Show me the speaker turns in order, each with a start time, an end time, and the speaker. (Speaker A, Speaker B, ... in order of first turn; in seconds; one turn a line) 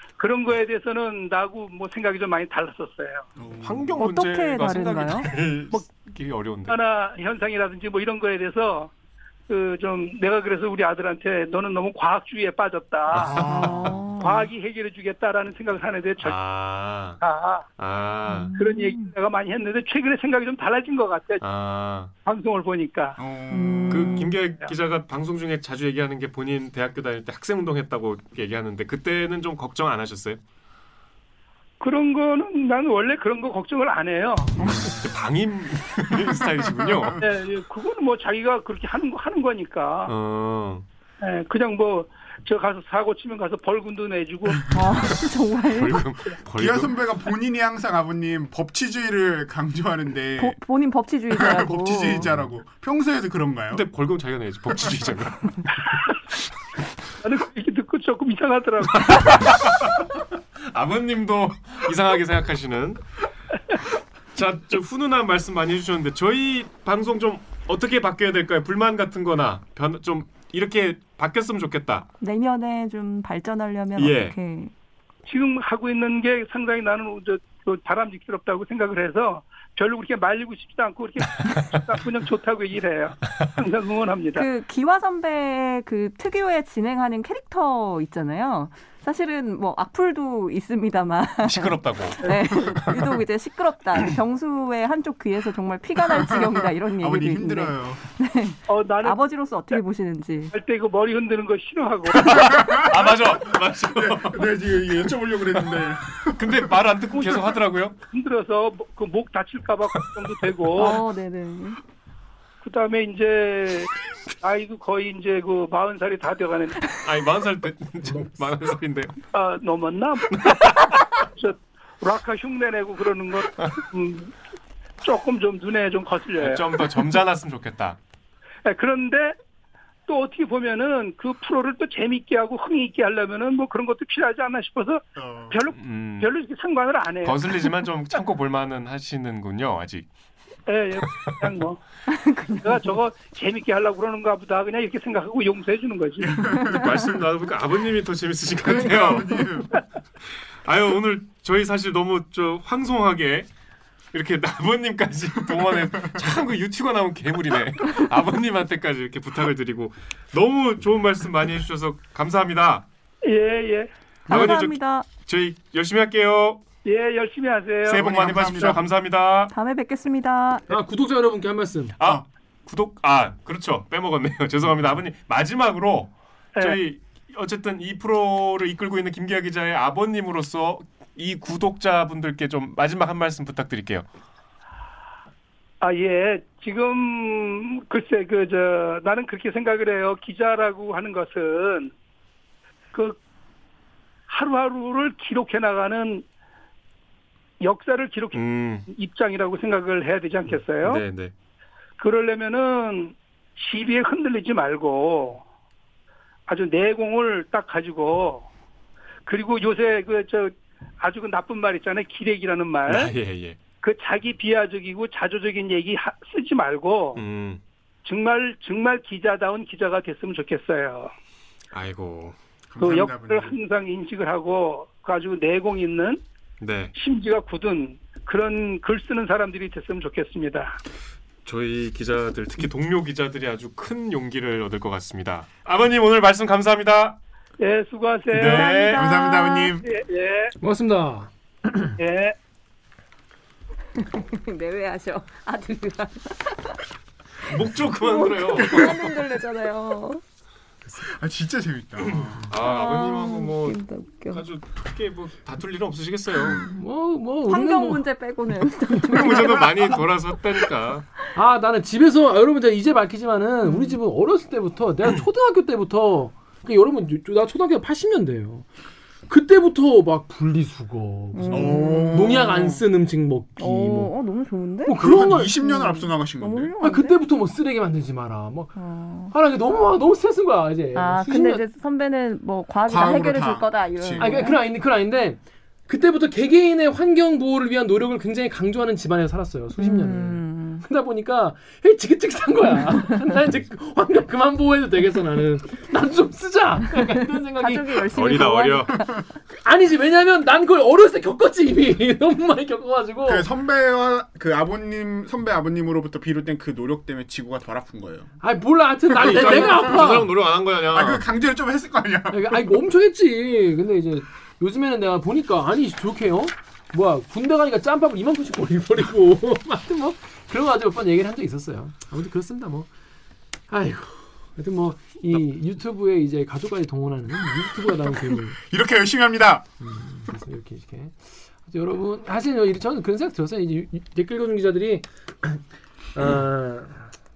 Speaker A: 0.2-3.3
Speaker B: 3.4-4.0
Speaker C: 3.6-6.8
Speaker D: 4.0-5.3
Speaker A: 6.7-8.9
Speaker A: 9.5-13.4
Speaker B: 13.1-14.0
Speaker C: 13.1-13.8
Speaker D: 13.5-14.5
Speaker A: 14.2-16.4
Speaker C: 16.2-17.2
Speaker A: 17.2-17.7
Speaker C: 17.8-18.6
Speaker D: 18.3-19.1
Speaker A: 18.6-21.4
Speaker C: 21.4-22.1
Speaker A: 22.2-23.2
Speaker B: 23.2-24.4
Speaker D: 23.5-24.3
Speaker C: 23.9-30.4
Speaker A: 31.8-34.6
Speaker D: 34.6-34.9
Speaker C: 34.8-37.2
Speaker B: 36.2-37.2
Speaker A: 37.2-40.1
Speaker C: 40.1-40.9
Speaker A: 41.2-44.6
Speaker D: 44.7-46.1
Speaker C: 45.7-47.0
Speaker B: 46.5-50.6
Speaker D: 50.4-52.3
Speaker B: 51.3-53.9
Speaker C: 53.7-55.7
Speaker A: 57.2-59.4
Speaker C: 59.0-59.8
Speaker C: 60.7-63.0
Speaker C: 64.3-72.1
Speaker D: 72.2-74.7
Speaker C: 74.0-74.3
Speaker A: 75.3-84.5
Speaker D: 84.3-100.5
Speaker C: 91.4-93.1
Speaker B: 96.3-98.0
Speaker A: 98.7-99.2
Speaker A: 100.5-102.5
Speaker C: 102.2-104.5
Speaker B: 102.3-106.8
Speaker C: 106.4-108.0
Speaker A: 107.1-107.5
Speaker A: 108.0-111.0
Speaker D: 110.7-111.8
Speaker A: 112.6-113.9
Speaker A: 114.4-116.9
Speaker C: 117.0-119.1
Speaker A: 119.3-124.3
Speaker C: 120.4-120.6
Speaker A: 125.0-127.0
Speaker C: 126.4-128.0
Speaker A: 128.7-129.4
Speaker A: 130.1-137.7
Speaker B: 135.2-135.6
Speaker C: 135.7-136.3
Speaker C: 137.2-140.1
Speaker A: 140.7-141.8
Speaker C: 141.0-141.4
Speaker D: 142.1-142.8
Speaker A: 142.6-146.4
Speaker B: 146.2-147.4
Speaker D: 146.5-146.9
Speaker C: 146.7-149.4
Speaker B: 148.6-149.7
Speaker C: 150.7-153.5
Speaker C: 154.1-162.9
Speaker B: 155.5-156.2
Speaker A: 163.2-163.9
Speaker C: 164.3-166.6
Speaker D: 164.3-165.1
Speaker A: 166.8-168.8
Speaker C: 167.8-169.5
Speaker B: 167.9-168.8
Speaker D: 169.5-170.7
Speaker E: 170.7-171.9
Speaker C: 172.0-184.1
Speaker A: 185.8-191.9
Speaker A: 192.9-193.2
Speaker A: 194.3-196.2
Speaker A: 197.6-201.0
Speaker C: 198.3-198.9
Speaker C: 200.8-201.3
Speaker A: 202.0-205.4
Speaker A: 206.5-208.5
Speaker A: 209.3-213.1
Speaker C: 212.9-213.6
Speaker A: 213.8-217.2
Speaker C: 217.2-217.6
Speaker A: 218.1-221.1
Speaker C: 221.7-222.4
Speaker B: 222.7-223.6
Speaker A: 222.8-226.2
Speaker C: 226.6-226.9
Speaker A: 226.9-230.8
Speaker C: 231.4-237.2
Speaker A: 237.6-239.2
Speaker C: 238.3-239.1
Speaker B: 238.4-239.8
Speaker D: 238.5-239.7
Speaker A: 239.8-240.5
Speaker E: 240.6-242.0
Speaker A: 242.0-242.4
Speaker D: 243.9-246.8
Speaker C: 247.5-248.9
Speaker D: 247.8-250.2
Speaker B: 248.4-249.1
Speaker B: 251.0-252.5
Speaker C: 252.5-256.6
Speaker D: 252.6-254.5
Speaker E: 256.8-258.1
Speaker D: 257.5-260.0
Speaker E: 258.9-259.3
Speaker C: 259.1-261.1
Speaker B: 259.4-259.8
Speaker E: 261.3-268.7
Speaker D: 263.6-264.0
Speaker E: 269.3-274.1
Speaker D: 271.3-272.4
Speaker B: 271.5-272.8
Speaker D: 273.6-275.0
Speaker E: 274.9-275.6
Speaker B: 274.9-276.7
Speaker D: 275.6-277.2
Speaker E: 276.8-278.8
Speaker D: 278.8-279.3
Speaker E: 279.3-281.6
Speaker D: 280.9-284.6
Speaker B: 282.9-284.3
Speaker E: 284.2-298.0
Speaker D: 289.8-290.9
Speaker D: 297.0-299.1
Speaker C: 298.1-299.1
Speaker E: 299.5-303.5
Speaker B: 303.2-308.3
Speaker E: 308.4-310.3
Speaker C: 309.2-311.3
Speaker B: 309.2-309.9
Speaker B: 310.6-312.7
Speaker E: 312.3-322.9
Speaker E: 323.7-328.6
Speaker B: 328.6-329.7
Speaker E: 329.8-335.6
Speaker E: 336.1-337.1